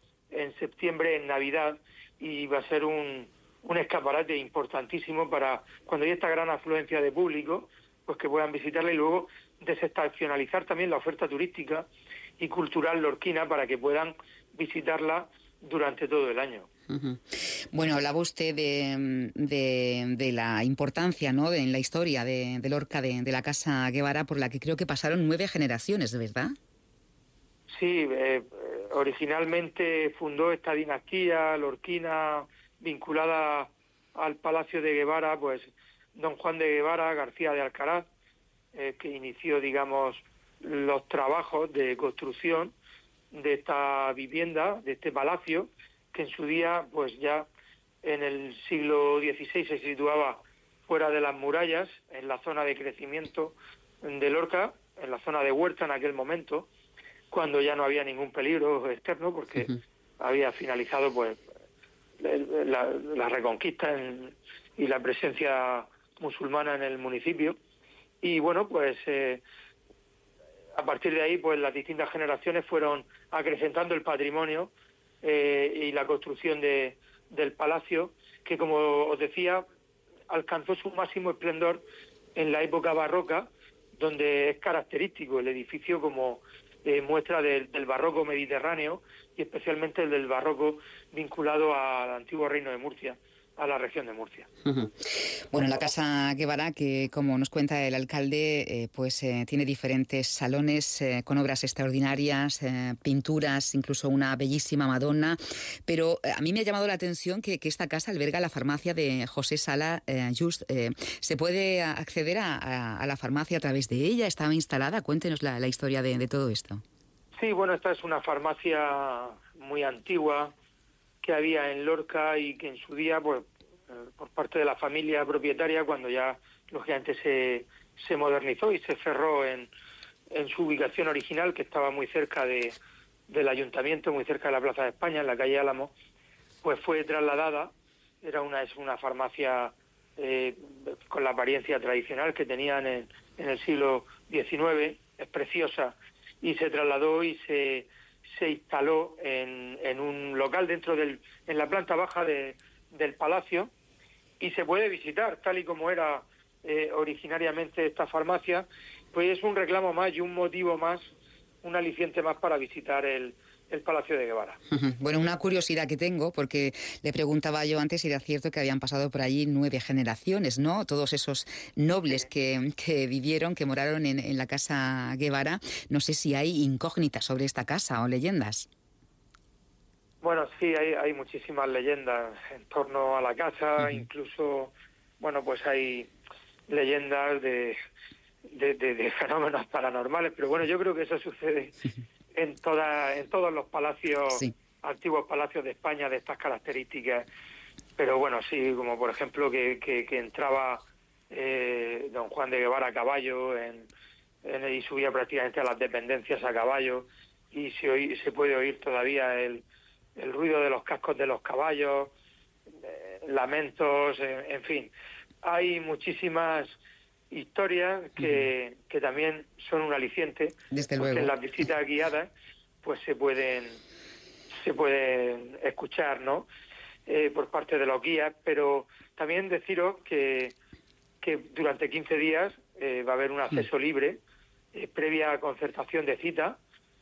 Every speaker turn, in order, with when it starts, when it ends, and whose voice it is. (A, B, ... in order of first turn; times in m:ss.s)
0:00.3-0:11.9 A
0:12.4-0:16.7 A
0:16.9-0:26.5 B
0:27.7-0:38.1 A
0:38.7-0:42.7 A
0:43.3-0:47.5 A
0:48.0-0:56.7 A
0:57.3-1:01.4 A
1:02.2-1:07.6 A
1:08.2-1:09.4 A
1:10.8-1:14.7 A
1:15.2-1:19.6 A
1:20.3-1:21.8 A
1:22.3-1:34.5 A
1:34.6-1:56.8 B
1:57.4-2:00.5 A
2:01.2-2:09.7 A
2:10.3-2:12.8 A
2:13.3-2:15.9 A
2:16.6-2:17.7 A
2:18.2-2:33.7 A
2:34.4-2:41.1 A
2:41.6-2:44.6 A
2:44.7-2:58.7 B
3:00.2-3:06.1 A
3:06.7-3:07.8 A
3:08.5-3:11.8 A
3:12.3-3:17.2 A
3:18.0-3:23.9 A
3:24.4-3:29.6 A
3:30.2-3:32.1 A
3:32.8-3:34.9 A
3:35.4-3:36.8 A
3:37.3-3:42.3 A
3:40.7-3:41.3 B
3:42.8-3:43.8 A
3:44.5-3:46.5 A
3:47.1-3:50.5 A
3:51.2-3:54.2 A
3:54.7-3:56.6 A